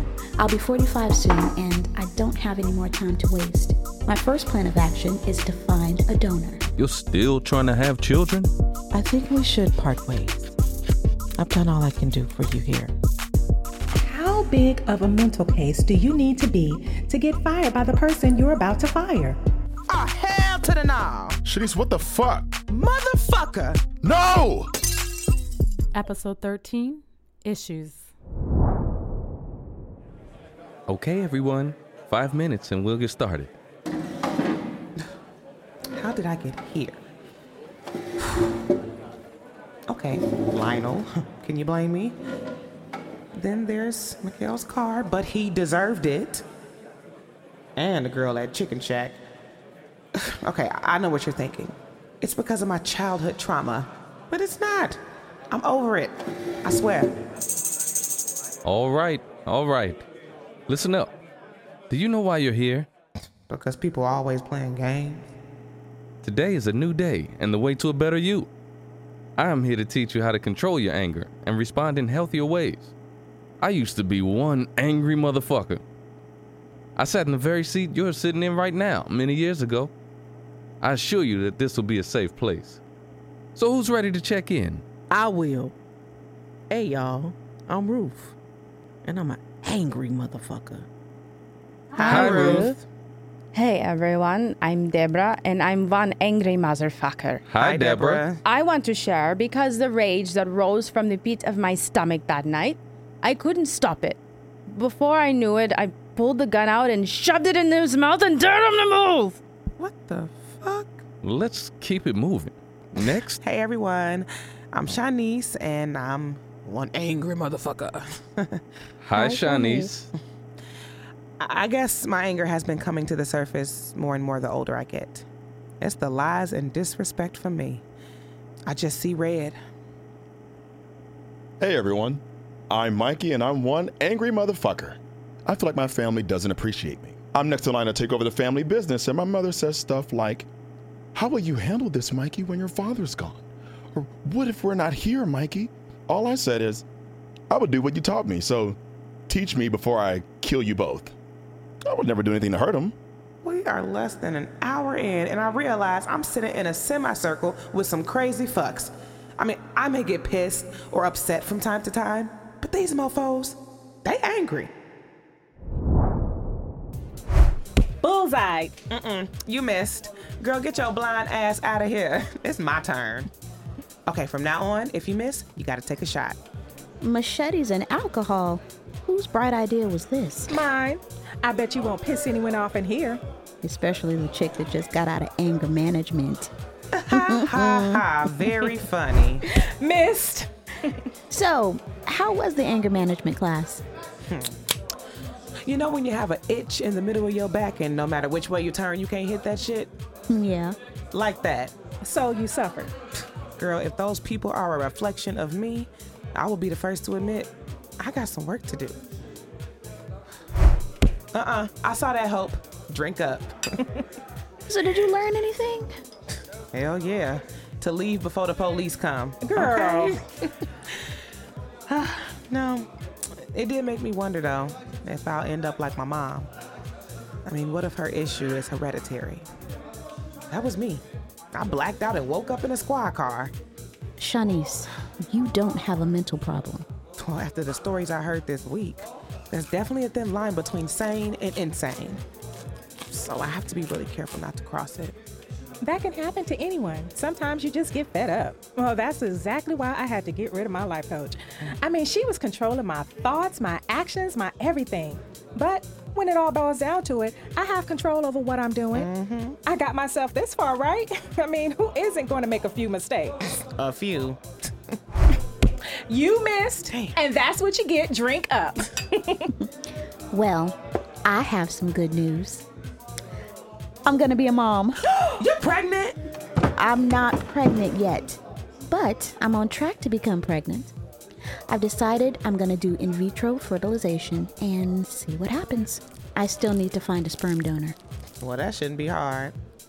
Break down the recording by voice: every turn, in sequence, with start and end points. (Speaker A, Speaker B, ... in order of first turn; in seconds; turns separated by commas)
Speaker A: 0.4-6.6, Speaker B: 6.8-8.5, Speaker C: 8.9-10.4, Speaker C: 11.4-12.8, Speaker D: 14.0-19.4, Speaker C: 19.9-21.4, Speaker E: 21.4-22.5, Speaker C: 22.7-23.9, Speaker E: 24.0-24.7, Speaker F: 25.9-28.1, Speaker B: 30.9-33.5, Speaker C: 36.0-37.0, Speaker C: 39.9-42.2, Speaker C: 43.3-46.4, Speaker C: 47.8-49.2, Speaker C: 50.4-55.0, Speaker C: 55.5-57.1, Speaker B: 58.6-60.0, Speaker B: 60.7-61.1, Speaker B: 61.9-62.9, Speaker C: 63.5-65.2, Speaker B: 66.2-68.5, Speaker B: 69.4-72.9, Speaker B: 73.6-75.8, Speaker B: 77.0-79.9, Speaker B: 80.8-82.8, Speaker B: 83.5-84.8, Speaker G: 85.1-85.7, Speaker G: 86.7-88.1, Speaker G: 89.1-89.4, Speaker G: 90.1-90.8, Speaker C: 92.0-92.8, Speaker B: 92.0-92.7, Speaker H: 92.0-92.8, Speaker H: 93.5-97.4, Speaker B: 97.5-98.2, Speaker C: 97.6-98.4, Speaker H: 98.4-109.4, Speaker C: 109.8-111.0, Speaker B: 111.2-113.4, Speaker C: 113.4-118.6, Speaker B: 119.0-120.1, Speaker D: 119.1-119.9, Speaker C: 121.4-125.2, Speaker C: 125.8-127.8, Speaker C: 128.7-129.6, Speaker E: 131.6-140.5, Speaker E: 141.2-146.8, Speaker E: 147.5-151.1, Speaker E: 151.9-153.0, Speaker C: 153.4-164.7, Speaker D: 168.0-168.8, Speaker C: 168.9-173.3, Speaker C: 174.1-176.4, Speaker A: 177.0-180.6, Speaker D: 180.5-183.2, Speaker A: 183.6-186.5, Speaker C: 186.9-189.4, Speaker A: 187.1-188.0, Speaker D: 189.5-191.0, Speaker A: 191.3-193.8, Speaker C: 195.7-199.9, Speaker A: 200.3-200.8, Speaker C: 201.1-201.7, Speaker D: 202.0-202.9, Speaker C: 203.6-209.0, Speaker C: 211.3-213.5, Speaker A: 214.7-215.9, Speaker C: 216.7-220.2, Speaker D: 219.4-220.2, Speaker C: 221.9-222.9, Speaker C: 223.5-226.5, Speaker C: 227.5-229.5, Speaker C: 230.5-231.0, Speaker C: 231.5-233.5, Speaker A: 234.2-236.9, Speaker C: 237.2-242.2, Speaker C: 243.1-245.2, Speaker D: 245.8-259.1, Speaker C: 258.9-259.6, Speaker D: 259.6-263.4, Speaker C: 263.8-264.4, Speaker D: 266.1-269.5, Speaker C: 266.9-267.2, Speaker A: 270.3-272.7, Speaker A: 274.1-275.0, Speaker C: 275.1-276.2, Speaker A: 276.8-280.9, Speaker A: 281.7-287.9, Speaker C: 288.4-289.5